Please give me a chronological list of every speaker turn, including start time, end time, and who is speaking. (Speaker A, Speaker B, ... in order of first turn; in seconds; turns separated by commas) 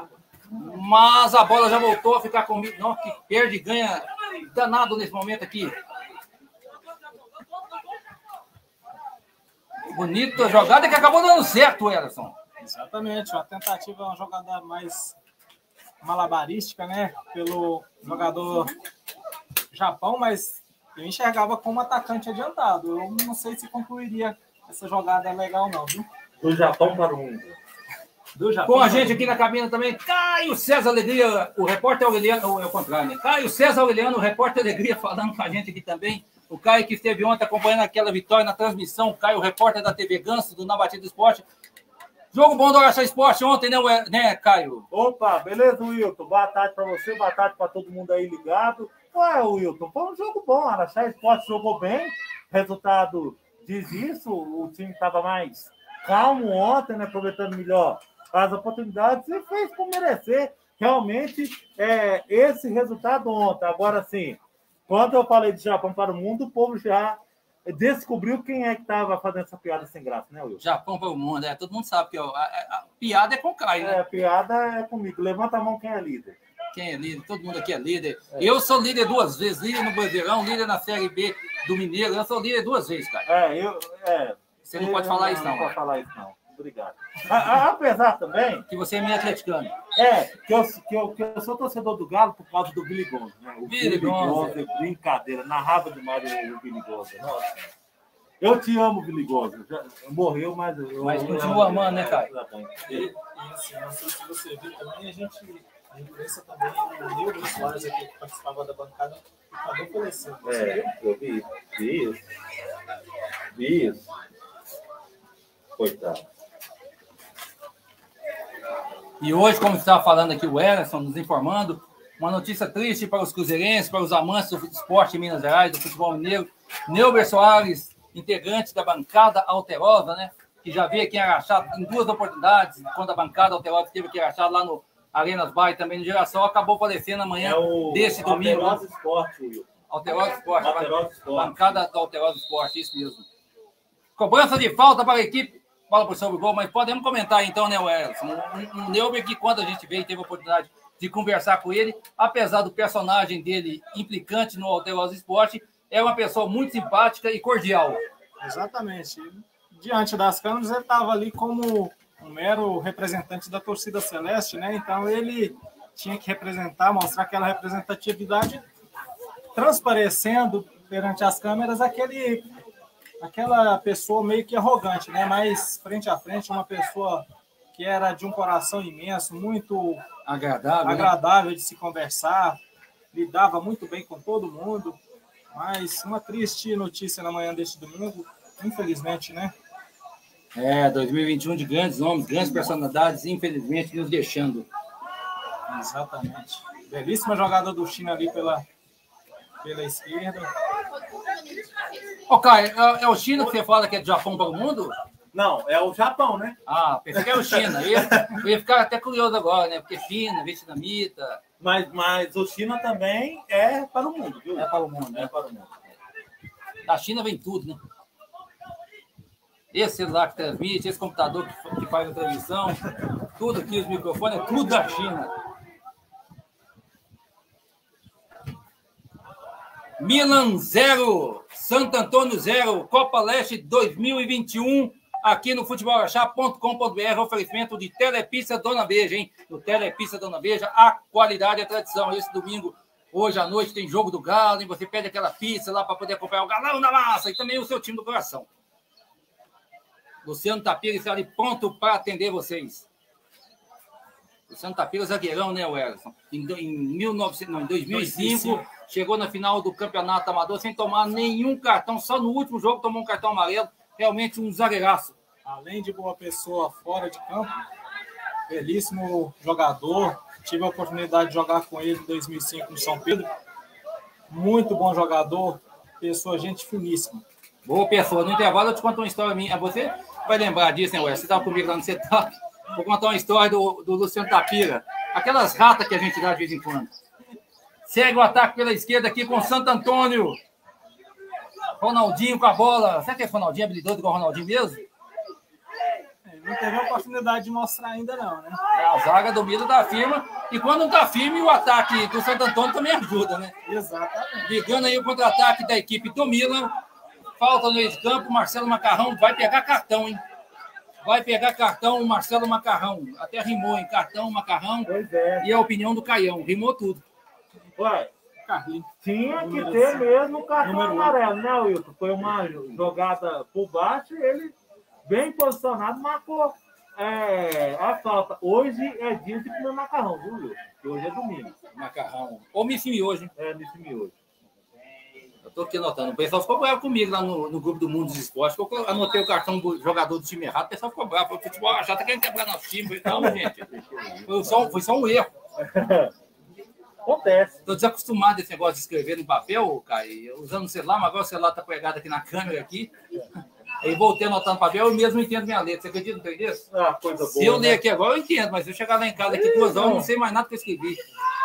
Speaker A: 0.5-5.8, Speaker A: 9.9-12.3, Speaker B: 12.6-15.2, Speaker B: 16.0-18.7, Speaker B: 19.7-26.1, Speaker C: 26.4-27.6, Speaker B: 28.4-29.3, Speaker A: 28.7-41.4, Speaker A: 42.3-44.9, Speaker C: 44.9-70.6, Speaker A: 70.6-74.0, Speaker C: 73.8-76.4, Speaker A: 76.7-83.3, Speaker C: 83.3-88.7, Speaker A: 84.7-85.8, Speaker A: 88.7-89.7, Speaker C: 90.0-97.7, Speaker A: 93.7-94.6, Speaker C: 98.4-103.1, Speaker A: 101.0-102.3, Speaker B: 102.9-110.9, Speaker C: 110.4-112.3, Speaker C: 113.5-114.1, Speaker C: 115.8-116.2, Speaker A: 119.2-138.8, Speaker C: 137.4-139.8, Speaker A: 139.9-143.3, Speaker C: 140.6-141.7, Speaker A: 144.2-158.0, Speaker B: 158.4-168.7, Speaker B: 169.5-172.5, Speaker B: 173.2-180.0, Speaker A: 180.3-181.1, Speaker B: 180.8-182.6, Speaker B: 183.1-185.0, Speaker B: 185.5-189.5, Speaker A: 190.6-194.7, Speaker B: 195.7-198.7, Speaker B: 199.6-200.5, Speaker A: 202.3-205.0, Speaker C: 205.3-206.6, Speaker A: 206.7-211.4, Speaker C: 207.2-208.4, Speaker C: 211.6-215.9, Speaker A: 214.6-215.3, Speaker A: 216.9-217.8, Speaker A: 219.7-225.3, Speaker A: 230.0-248.5, Speaker A: 250.2-252.9, Speaker A: 254.5-265.2, Speaker B: 257.9-258.6, Speaker B: 265.4-267.5, Speaker B: 268.5-273.3, Speaker B: 274.3-277.2, Speaker A: 277.6-286.9, Speaker A: 287.9-290.4, Speaker A: 291.8-294.9, Speaker B: 296.2-298.6, Speaker A: 298.7-303.5, Speaker B: 303.6-304.5, Speaker A: 304.4-306.7, Speaker A: 307.4-310.2, Speaker A: 311.0-314.9, Speaker C: 314.9-315.5, Speaker A: 315.4-317.0, Speaker C: 317.8-318.1, Speaker B: 318.4-320.1, Speaker C: 319.0-331.6, Speaker B: 320.6-321.2, Speaker A: 331.7-333.3, Speaker C: 333.4-334.1, Speaker A: 335.4-343.7, Speaker C: 343.0-344.8, Speaker A: 344.3-345.3, Speaker C: 345.6-346.1, Speaker C: 347.1-347.6, Speaker A: 347.7-352.9, Speaker A: 353.8-356.7, Speaker C: 356.7-357.8, Speaker A: 357.3-361.0, Speaker C: 359.3-360.1